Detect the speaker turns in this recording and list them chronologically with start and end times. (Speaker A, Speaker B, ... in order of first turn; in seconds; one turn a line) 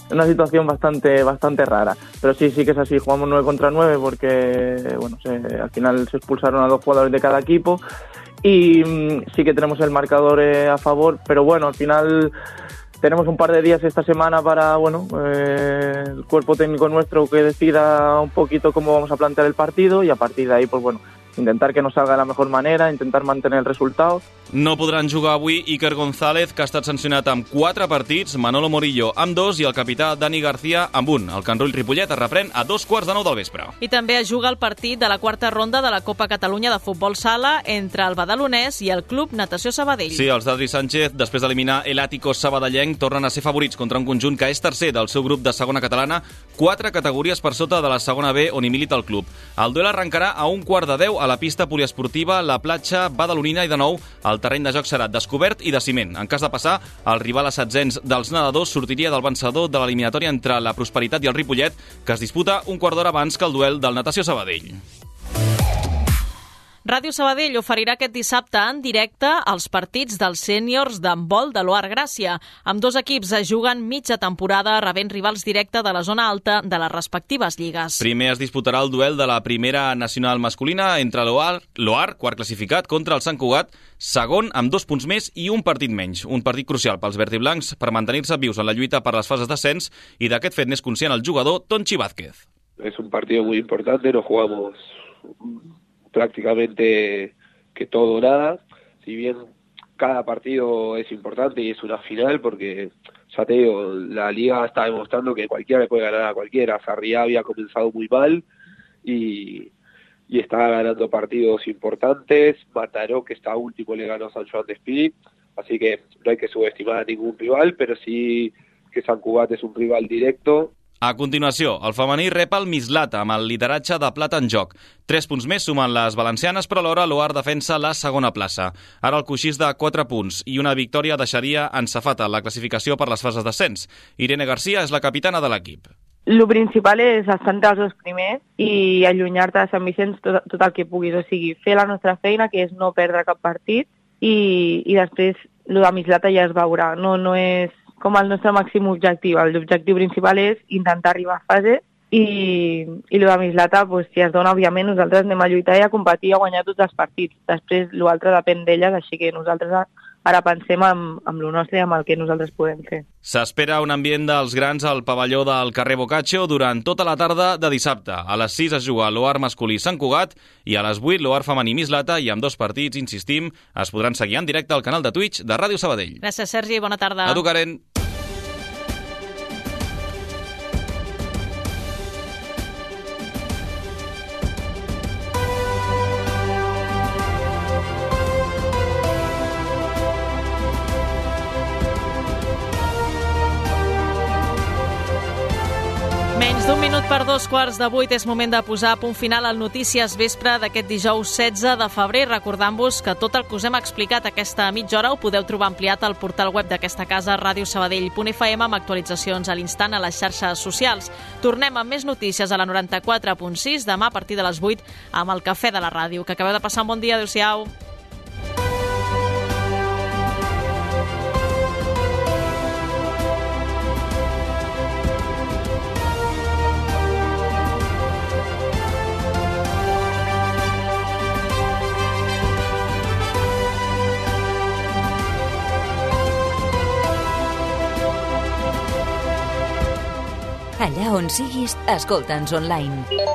Speaker A: 0.1-7.8
Speaker A: 8.4-12.3
Speaker A: 13.0-24.2
Speaker B: 24.5-33.7
Speaker C: 33.8-40.3
Speaker B: 40.1-64.8
Speaker C: 66.8-78.0
Speaker B: 78.0-92.4
Speaker D: 92.8-94.8
Speaker D: 96.1-99.4
Speaker D: 100.0-108.4
Speaker D: 109.0-109.7
Speaker D: 110.3-120.7
Speaker B: 121.0-135.9
Speaker E: 136.3-163.0
Speaker B: 163.2-176.2
Speaker C: 176.2-177.4
Speaker B: 177.3-177.8
Speaker C: 196.3-217.7
Speaker F: 240.8-243.1